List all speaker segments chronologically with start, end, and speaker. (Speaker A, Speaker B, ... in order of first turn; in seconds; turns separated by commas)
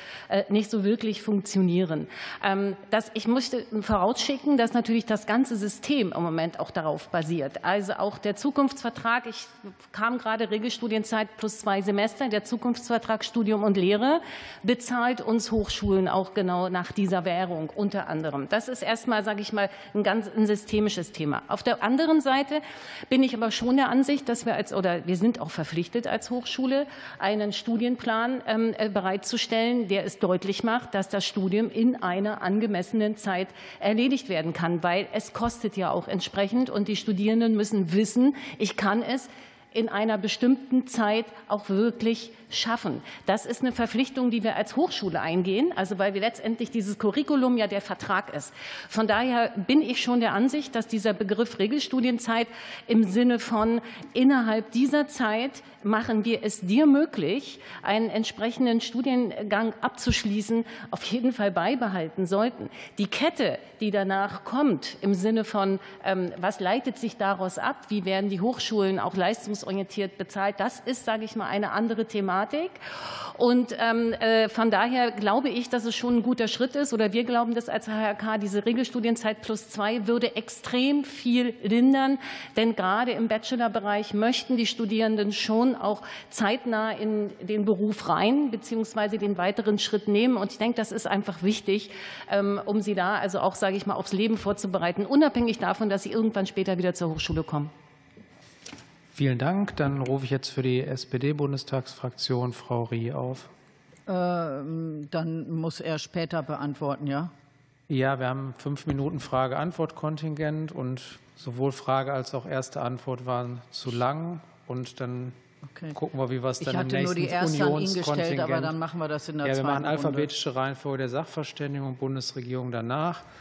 Speaker A: 0.3-72.8, Speaker A: 73.3-97.7, Speaker B: 99.1-103.5, Speaker C: 104.1-107.3, Speaker B: 107.9-115.4, Speaker B: 115.9-118.8, Speaker C: 116.6-120.3, Speaker B: 119.4-123.2